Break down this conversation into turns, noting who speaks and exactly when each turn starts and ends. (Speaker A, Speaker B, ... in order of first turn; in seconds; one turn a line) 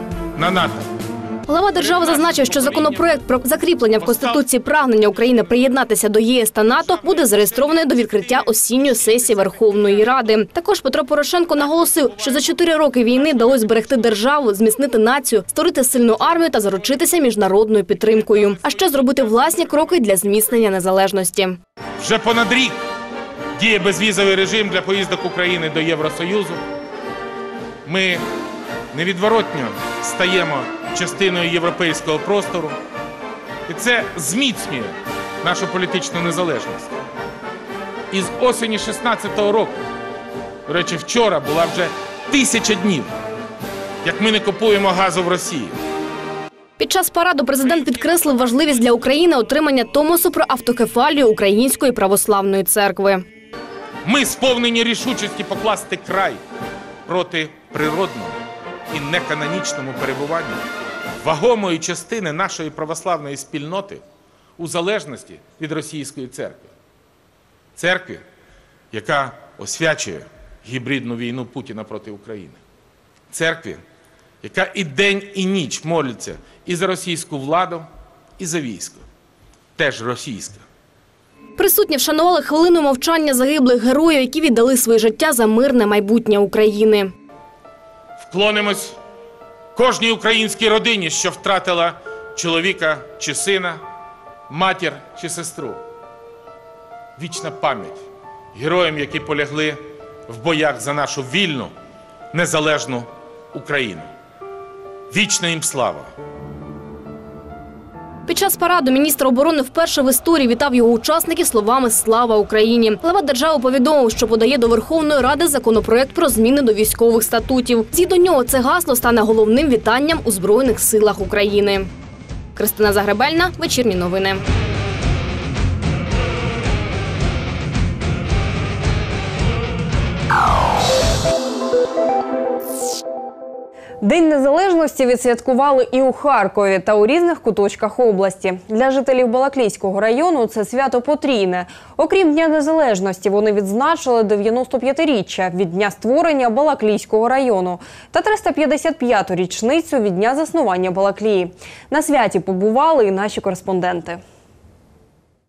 Speaker A: 0.3-0.9
Speaker B: 1.5-21.6
Speaker A: 2.3-2.7
Speaker A: 4.0-4.4
Speaker A: 22.0-22.8
Speaker A: 23.6-26.6
Speaker A: 27.9-28.2
Speaker A: 28.9-32.8
Speaker A: 33.7-36.9
Speaker A: 38.1-39.8
Speaker A: 40.7-43.1
Speaker A: 44.0-45.8
Speaker B: 46.8-53.2
Speaker A: 54.0-56.4
Speaker A: 57.0-58.4
Speaker A: 58.9-60.6
Speaker A: 61.2-64.0
Speaker A: 64.6-66.7
Speaker A: 67.8-68.2
Speaker A: 68.9-72.6
Speaker A: 73.3-73.8
Speaker A: 74.4-77.8
Speaker A: 78.4-79.0
Speaker A: 79.8-80.6
Speaker B: 81.6-87.1
Speaker A: 88.2-89.0
Speaker A: 89.7-93.8
Speaker A: 94.5-95.8
Speaker A: 97.2-101.7
Speaker A: 102.3-104.1
Speaker A: 105.1-106.1
Speaker B: 108.3-121.9
Speaker B: 122.5-124.4
Speaker C: 134.0-154.2